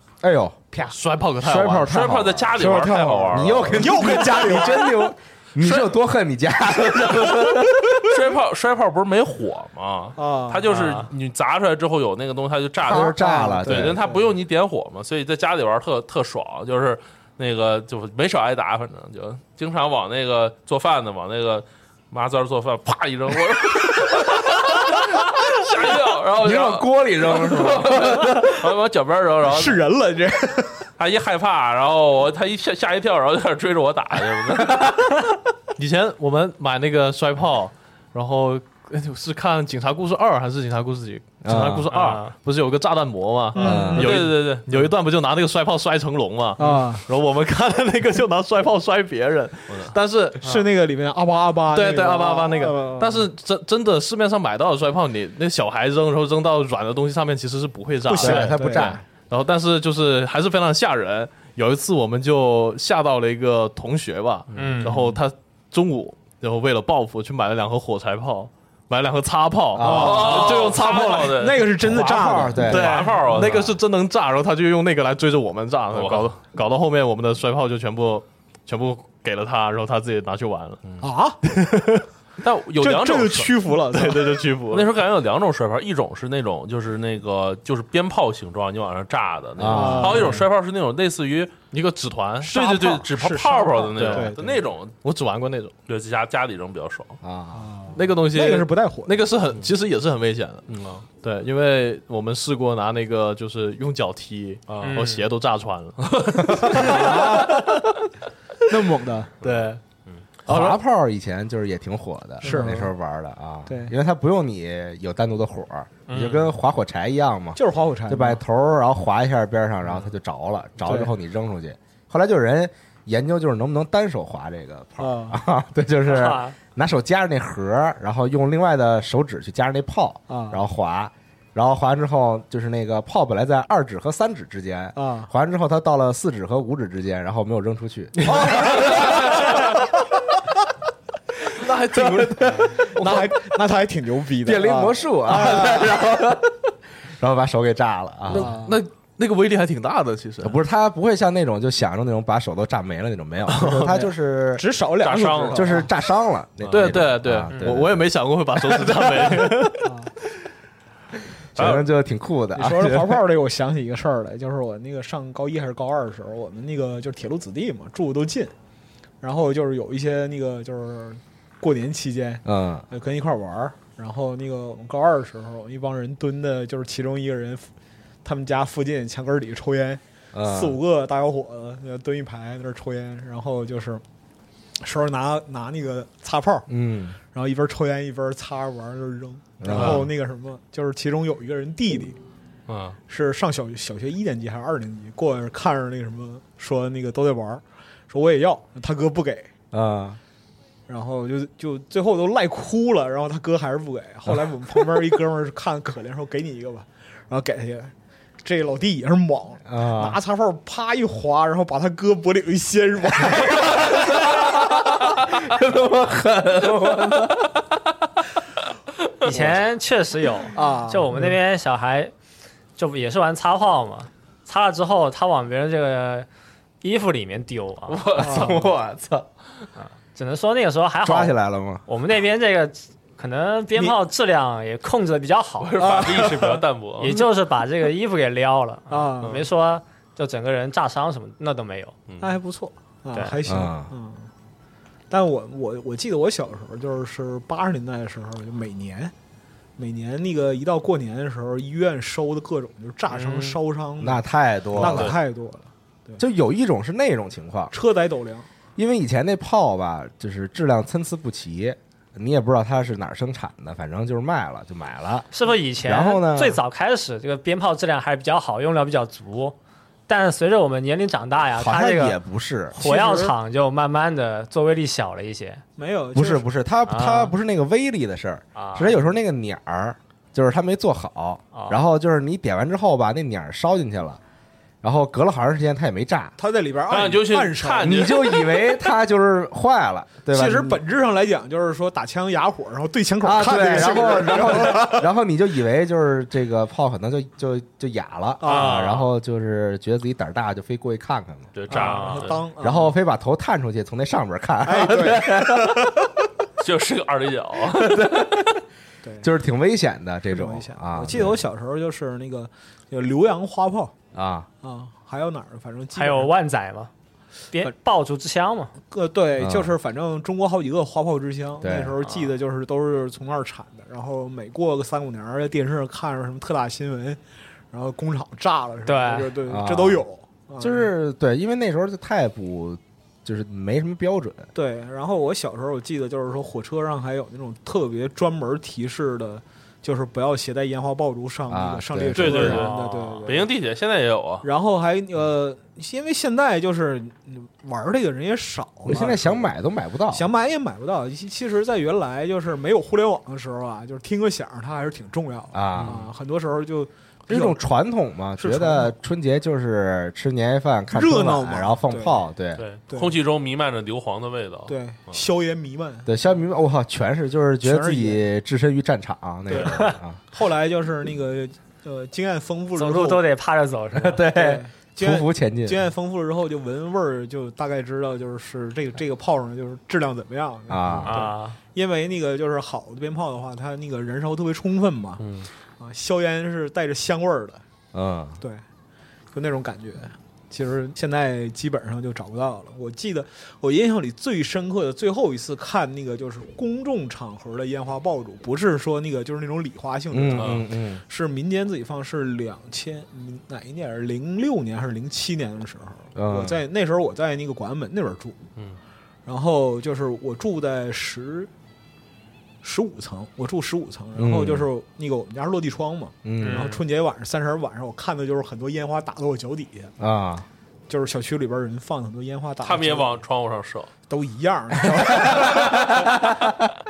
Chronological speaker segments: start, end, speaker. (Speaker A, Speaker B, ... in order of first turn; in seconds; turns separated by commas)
Speaker A: 0.2-0.9, Speaker B: 0.8-1.9, Speaker A: 1.4-8.1, Speaker C: 1.9-4.8, Speaker D: 2.6-5.1, Speaker C: 5.6-6.0, Speaker C: 8.0-29.8, Speaker D: 10.2-10.7, Speaker E: 10.7-11.1, Speaker A: 12.8-14.0, Speaker D: 12.9-14.3, Speaker A: 26.4-28.5, Speaker D: 29.4-30.9, Speaker C: 31.0-34.9, Speaker B: 35.8-50.4, Speaker A: 41.4-41.9, Speaker E: 41.9-42.3, Speaker D: 43.5-44.2, Speaker A: 43.6-44.1, Speaker C: 43.9-44.7, Speaker D: 46.6-47.0, Speaker D: 50.4-53.3, Speaker B: 51.7-71.4, Speaker D: 58.0-59.0, Speaker A: 58.2-59.0, Speaker E: 64.5-65.0, Speaker A: 69.7-70.4, Speaker D: 69.8-73.1, Speaker C: 69.8-73.7, Speaker A: 71.8-73.0, Speaker B: 72.7-80.8, Speaker C: 75.9-76.3, Speaker D: 81.0-81.4, Speaker C: 82.4-83.7, Speaker D: 82.8-84.5, Speaker B: 83.9-84.9, Speaker C: 84.7-91.5, Speaker A: 89.6-90.3, Speaker D: 89.7-90.5, Speaker B: 91.7-92.5, Speaker D: 92.4-94.6, Speaker C: 92.5-94.9, Speaker B: 94.0-94.3, Speaker B: 95.0-95.7, Speaker C: 95.9-97.2, Speaker A: 97.2-97.7, Speaker D: 97.5-99.2, Speaker B: 97.9-100.6, Speaker C: 100.7-101.0, Speaker B: 101.2-107.5, Speaker C: 104.7-105.0, Speaker E: 104.8-105.3, Speaker C: 106.0-107.0, Speaker D: 106.7-107.8, Speaker D: 108.7-109.3, Speaker B: 109.4-109.8, Speaker C: 109.4-110.2, Speaker A: 110.5-139.6, Speaker B: 110.5-110.8, Speaker D: 112.4-112.9, Speaker D: 113.7-113.9, Speaker E: 116.1-116.5, Speaker D: 117.5-118.4, Speaker D: 120.8-121.1, Speaker D: 125.0-125.4, Speaker E: 126.1-126.5, Speaker D: 130.3-130.6, Speaker D: 134.9-135.3, Speaker D: 138.3-139.4, Speaker B: 141.5-143.2, Speaker A: 141.9-143.3, Speaker D: 142.8-146.0, Speaker A: 144.4-146.6, Speaker A: 147.2-148.5, Speaker B: 148.3-150.6, Speaker D: 148.3-148.8, Speaker A: 150.4-154.7, Speaker B: 153.5-153.9, Speaker D: 153.8-155.9, Speaker C: 155.0-155.9, Speaker A: 155.5-158.0, Speaker B: 156.7-159.9, Speaker D: 159.8-160.1, Speaker C: 161.6-161.8, Speaker A: 161.6-163.2, Speaker D: 162.5-168.5, Speaker D: 169.2-177.7, Speaker A: 172.4-172.8, Speaker D: 178.2-184.0, Speaker A: 180.3-180.8, Speaker D: 184.8-186.7, Speaker A: 186.7-187.2, Speaker D: 187.3-192.2, Speaker A: 189.6-190.1, Speaker C: 189.7-190.0, Speaker C: 192.7-193.0, Speaker D: 193.1-199.5, Speaker A: 199.7-200.2, Speaker D: 200.9-214.5, Speaker A: 209.7-210.2, Speaker A: 213.3-217.6, Speaker E: 219.2-222.1, Speaker A: 219.3-219.5, Speaker D: 220.5-221.3, Speaker E: 222.8-226.3, Speaker E: 226.8-228.3, Speaker C: 227.9-228.7, Speaker D: 228.2-228.6, Speaker A: 228.2-229.2, Speaker E: 229.8-231.3, Speaker A: 231.0-231.8, Speaker E: 231.9-236.1, Speaker C: 235.6-237.2, Speaker D: 235.8-237.2, Speaker E: 237.0-241.9, Speaker D: 238.9-239.4, Speaker C: 242.1-242.3, Speaker D: 242.2-244.3, Speaker A: 243.4-243.9, Speaker D: 245.1-249.1, Speaker D: 249.8-256.2, Speaker E: 253.1-253.6, Speaker A: 254.0-255.1, Speaker C: 254.8-255.2, Speaker A: 256.2-257.7, Speaker D: 257.7-258.5, Speaker A: 258.8-265.3, Speaker E: 265.3-269.5, Speaker A: 265.8-266.6, Speaker E: 270.1-272.2, Speaker A: 271.5-272.8, Speaker E: 272.7-275.6, Speaker D: 272.8-273.3, Speaker D: 275.8-276.4, Speaker A: 276.1-284.2, Speaker E: 276.9-277.3, Speaker E: 278.5-278.9, Speaker E: 281.5-281.8, Speaker A: 284.8-286.3, Speaker D: 286.4-288.0, Speaker C: 286.9-288.6, Speaker A: 287.8-290.8, Speaker D: 290.3-295.1, Speaker A: 293.2-301.5, Speaker D: 298.4-299.0, Speaker E: 298.4-299.0, Speaker C: 301.5-302.4, Speaker D: 301.7-302.9, Speaker E: 301.7-302.3, Speaker A: 302.6-306.1, Speaker D: 304.6-305.9, Speaker C: 306.6-308.1, Speaker A: 307.7-308.6, Speaker A: 309.2-311.4, Speaker D: 310.3-313.9, Speaker A: 314.1-314.5, Speaker D: 314.6-316.3, Speaker E: 315.9-316.9, Speaker E: 317.5-318.7, Speaker D: 318.9-327.2, Speaker A: 319.4-319.7, Speaker A: 321.6-322.0, Speaker D: 327.7-330.9, Speaker E: 328.8-329.4, Speaker A: 329.5-330.0, Speaker A: 330.6-334.5, Speaker D: 334.5-343.5, Speaker A: 341.5-342.7, Speaker C: 342.1-344.5, Speaker E: 342.8-343.2, Speaker D: 344.4-349.5, Speaker A: 348.9-350.3, Speaker D: 350.1-357.6, Speaker A: 355.5-356.1, Speaker A: 357.3-362.6, Speaker D: 358.4-358.9, Speaker D: 360.9-362.2, Speaker C: 362.6-365.2, Speaker D: 362.9-363.1, Speaker D: 364.7-366.1, Speaker A: 366.1-370.2, Speaker D: 367.6-368.2, Speaker D: 369.5-373.2, Speaker E: 369.6-369.9, Speaker E: 372.8-374.3, Speaker A: 373.9-375.9, Speaker D: 374.3-385.2, Speaker A: 380.7-381.3, Speaker E: 381.0-381.6, Speaker C: 385.2-385.5, Speaker D: 385.8-387.6, Speaker A: 387.9-388.4, Speaker D: 389.3-408.4, Speaker A: 400.1-401.0, Speaker C: 400.4-400.6, Speaker A: 406.1-406.6, Speaker D: 409.2-411.5, Speaker D: 412.6-419.9, Speaker A: 414.1-414.7, Speaker A: 416.2-416.7, Speaker E: 416.4-416.8, Speaker A: 420.0-420.4, Speaker D: 420.9-423.1, Speaker C: 422.6-423.9, Speaker D: 424.1-426.3, Speaker A: 424.9-426.6